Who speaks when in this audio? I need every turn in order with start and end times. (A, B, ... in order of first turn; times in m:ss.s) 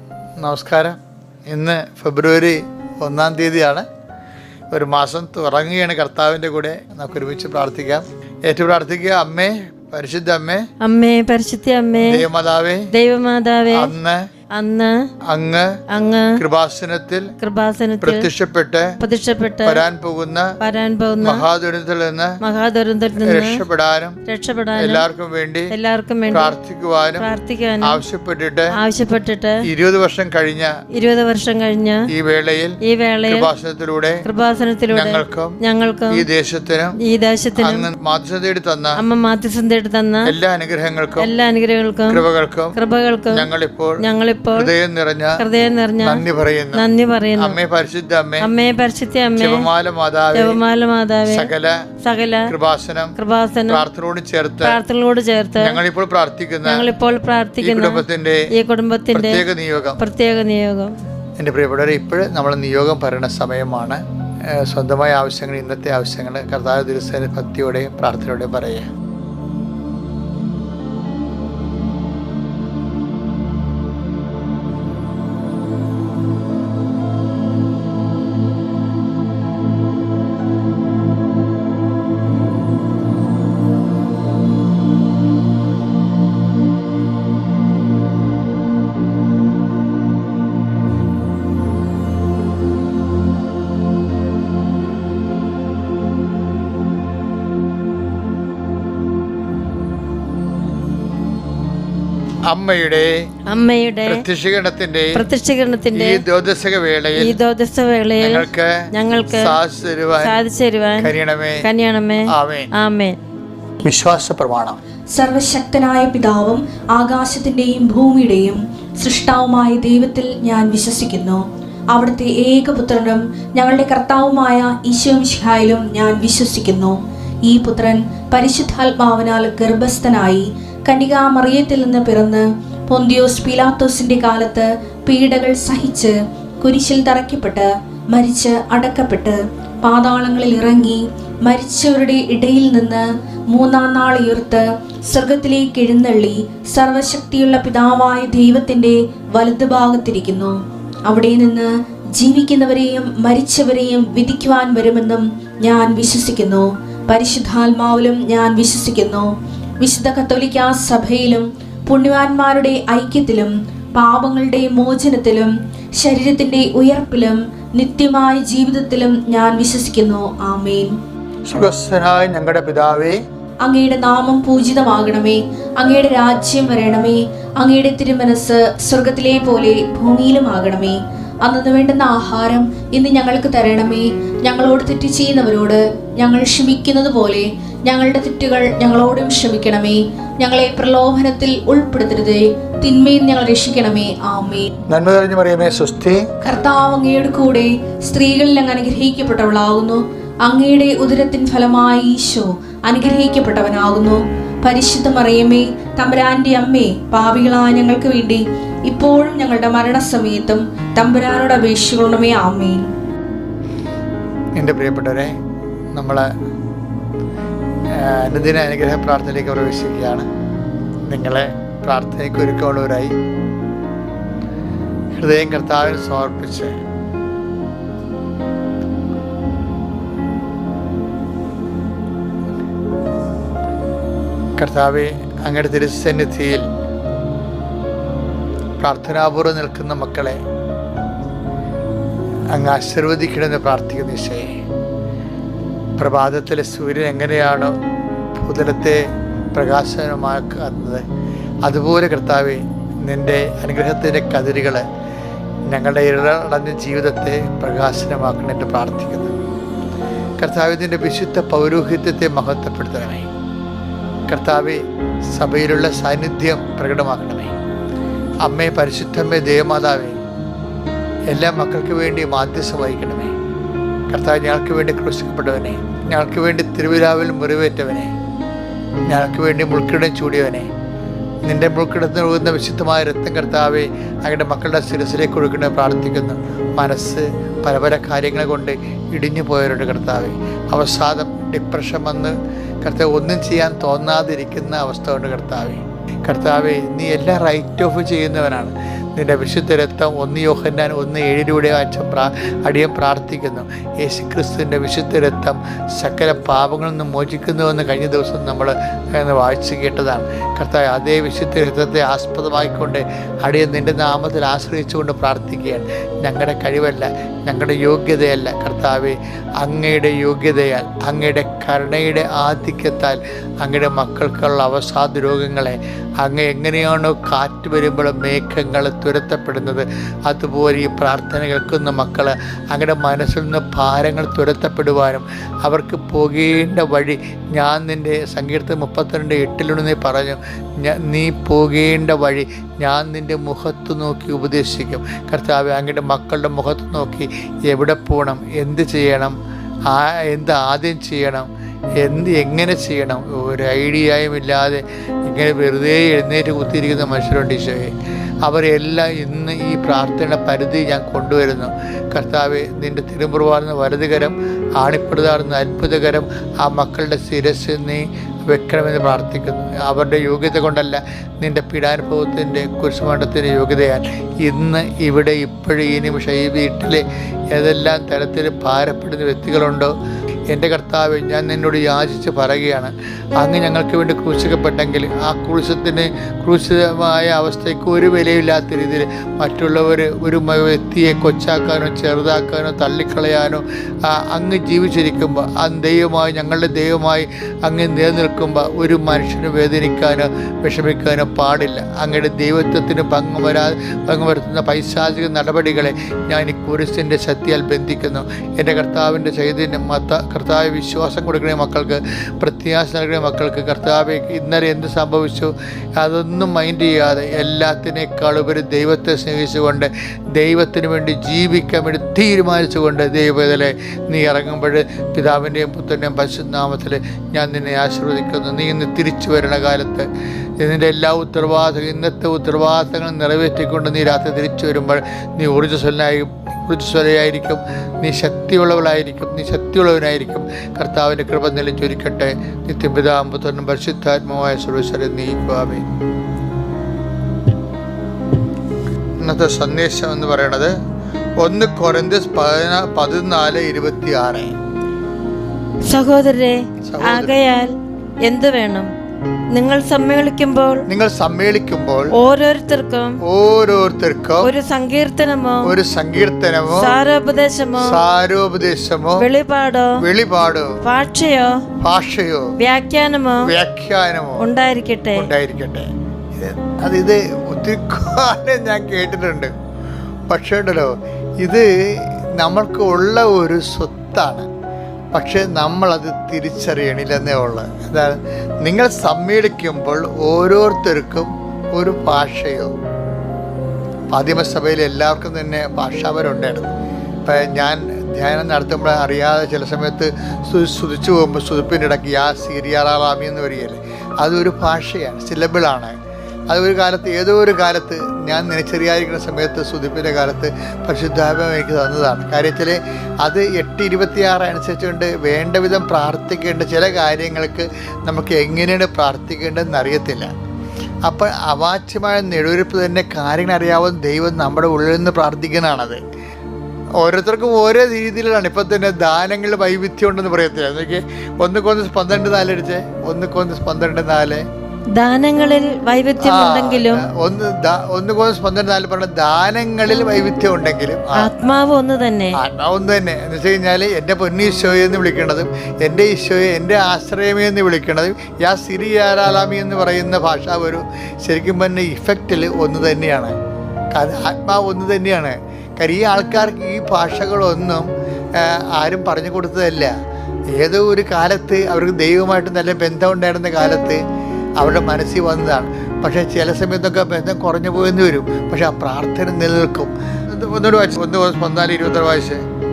0:00.4-0:03.8 A
0:04.7-0:10.7 A
0:10.8-0:12.3 B
0:12.0-0:12.9 A
0:12.9-0:13.9 B
0:13.7-0:14.3 A
0:14.5-0:15.0 B
0:15.3-0:15.8 A
0:15.9-0:16.4 B
0:16.4-0:17.3 A
0:17.4-0:18.3 B
0:18.0-0:19.0 A
0:19.0-0:19.8 B
0:19.6-0:20.6 A
0:20.6-0:21.5 B
0:21.2-0:22.4 A
0:22.4-0:23.6 B
0:23.2-0:24.2 A
0:24.3-0:25.1 B
0:24.8-0:25.8 A
0:25.7-0:26.6 B
0:26.3-0:27.3 A
0:27.2-0:28.0 B
0:27.8-0:28.8 A
0:28.8-0:29.6 B
0:29.6-0:30.7 A
0:31.0-0:32.0 B
0:32.1-0:34.2 A
0:32.9-0:33.5 B
0:34.2-0:36.2 B
0:34.9-0:35.6 A
0:36.1-0:37.0 A
0:37.0-0:37.9 B
0:37.6-0:39.0 A
0:39.0-0:40.3 B
0:40.3-0:41.3 A
0:41.2-0:42.2 B
0:42.1-0:42.8 A
0:42.8-0:43.5 B
0:43.3-0:44.0 A
0:44.0-0:44.7 B
0:44.5-0:45.4 A
0:45.4-0:47.6 B
0:46.0-0:46.8 A
0:47.4-0:48.5 A
0:48.4-0:49.7 B
0:49.4-0:50.6 A
0:50.3-0:51.5 B
0:51.3-0:51.9 A
0:52.0-0:52.5 B
0:52.5-0:53.1 A
0:53.2-0:53.8 B
0:53.7-0:54.8 A
0:54.6-0:55.8 B
0:55.6-0:56.9 A
0:56.6-0:59.4 B
0:57.6-0:58.5 A
0:59.1-1:00.0 A
1:00.0-1:00.9 B
1:01.4-1:04.0 A
1:04.5-1:08.9 A
1:42.5-1:43.1 A
1:43.5-1:44.2 B
1:44.0-1:45.2 A
1:45.2-1:46.2 B
1:45.9-1:47.4 A
1:47.2-1:49.6 B
1:48.2-1:50.4 A
1:50.2-1:53.2 B
1:51.0-1:51.7 A
1:52.3-1:52.7 A
1:53.8-1:54.8 A
1:55.1-2:39.3 C
2:39.8-2:51.0 C
2:51.5-2:53.2 A
2:53.6-3:14.7 C
3:14.9-3:16.2 A
3:16.4-3:32.9 C
3:34.6-3:35.3 A
3:35.9-3:36.3 A
3:38.0-3:40.3 A
3:41.1-3:43.1 A
3:45.1-3:46.7 A
3:54.6-3:56.7 A
3:58.8-4:00.4 A
4:02.5-4:04.5 A
4:06.0-4:07.8 A
4:08.4-4:09.0 A
4:09.5-4:11.0 A
4:11.6-4:14.8 A
4:15.7-4:19.3 A
4:20.4-4:23.3 A
4:24.3-4:24.8 A
4:25.3-4:27.5 A
4:28.4-4:30.2 A
4:31.3-4:33.3 A
4:34.1-4:38.1 A
4:39.1-4:40.7 A
4:41.5-5:49.4 A
5:49.9-5:51.5 A
5:52.0-5:57.9 A
5:58.4-6:19.9 A
6:20.5-7:10.1 A
7:10.6-7:25.9 A
7:29.2-7:30.7 A
7:31.4-7:34.5 A
7:35.8-7:37.7 B
7:36.9-7:37.4 A
7:38.2-7:38.9 B
7:39.5-7:40.8 B
7:40.9-7:42.2 A
7:42.1-7:43.2 B
7:43.3-7:44.5 A
7:44.4-7:45.7 B
7:45.6-7:47.0 A
7:46.7-7:48.0 B
7:47.8-7:49.3 A
7:49.2-7:50.0 B
7:50.0-7:50.7 A
7:50.8-7:51.5 B
7:51.8-7:52.5 A
7:52.6-7:53.5 B
7:53.4-7:54.4 A
7:54.4-7:55.3 B
7:55.2-7:59.5 A
8:00.3-8:04.5 A
8:05.1-8:12.7 A
8:14.1-8:25.9 A
8:26.5-8:40.3 A
8:41.1-8:46.0 A
8:47.0-8:54.4 A
8:55.0-8:57.1 B
8:56.2-9:01.3 A
9:01.2-9:02.4 B
9:02.4-9:13.3 A
9:13.9-9:19.9 A
9:20.6-9:24.0 A
9:24.6-9:32.4 A